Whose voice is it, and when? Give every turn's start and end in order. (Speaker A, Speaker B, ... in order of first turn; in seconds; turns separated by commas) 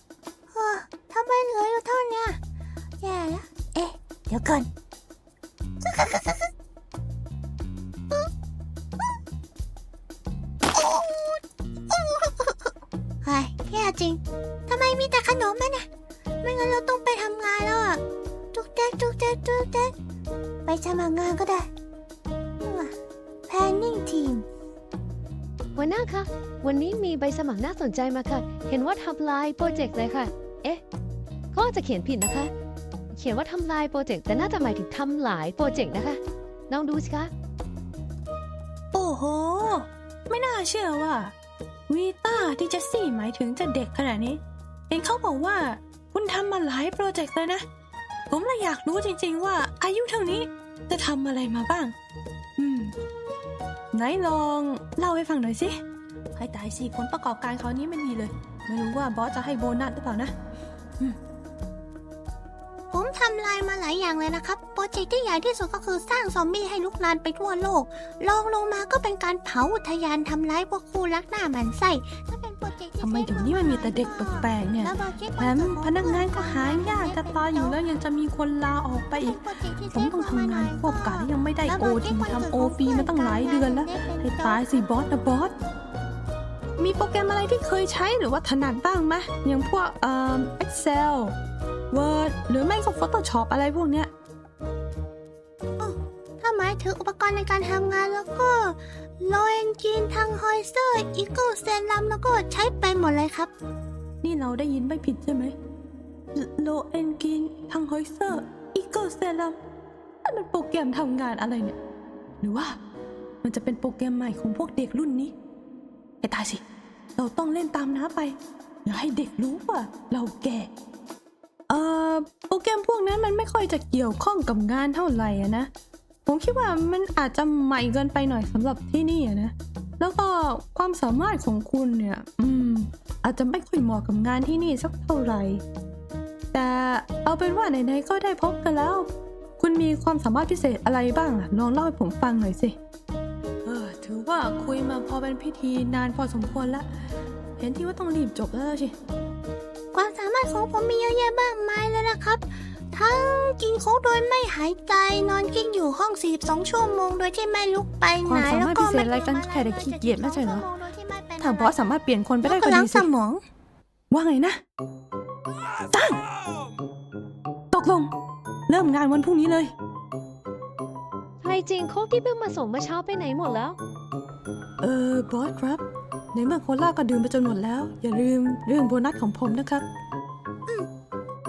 Speaker A: 0.5-2.4, Speaker A: 3.0-4.7, Speaker A: 5.8-6.4, Speaker A: 10.7-11.4, Speaker A: 11.9-12.3, Speaker A: 13.2-15.8, Speaker A: 16.4-18.0, Speaker A: 18.5-19.9, Speaker A: 20.6-21.7, Speaker A: 22.6-22.9, Speaker A: 23.5-24.4, Speaker B: 25.7-30.8, Speaker B: 31.5-32.5, Speaker B: 33.1-37.3, Speaker C: 38.9-41.3, Speaker C: 41.9-47.6, Speaker C: 48.3-51.9, Speaker C: 52.6-52.9, Speaker C: 53.9-55.8, Speaker C: 56.3-60.3, Speaker A: 62.9-77.8, Speaker C: 73.0-79.4, Speaker A: 79.2-84.8, Speaker C: 79.9-85.5, Speaker C: 86.8-91.3, Speaker C: 91.9-94.1, Speaker A: 95.8-103.5, Speaker C: 104.2-105.5, Speaker C: 106.3-109.6, Speaker C: 110.2-111.8, Speaker C: 112.4-112.8, Speaker C: 113.4-115.3, Speaker C: 116.2-116.6, Speaker C: 117.2-120.7, Speaker C: 121.7-125.7, Speaker C: 126.2-135.6, Speaker C: 136.5-139.1, Speaker C: 139.6-142.8, Speaker C: 143.6-146.9, Speaker C: 147.6-148.9, Speaker A: 149.9-161.8, Speaker C: 158.2-160.6, Speaker C: 161.4-163.1, Speaker A: 162.4-163.4, Speaker C: 164.1-164.6, Speaker C: 165.9-166.2, Speaker C: 167.7-168.1, Speaker C: 168.7-169.7, Speaker B: 171.4-173.8, Speaker C: 174.8-175.8, Speaker C: 176.3-179.8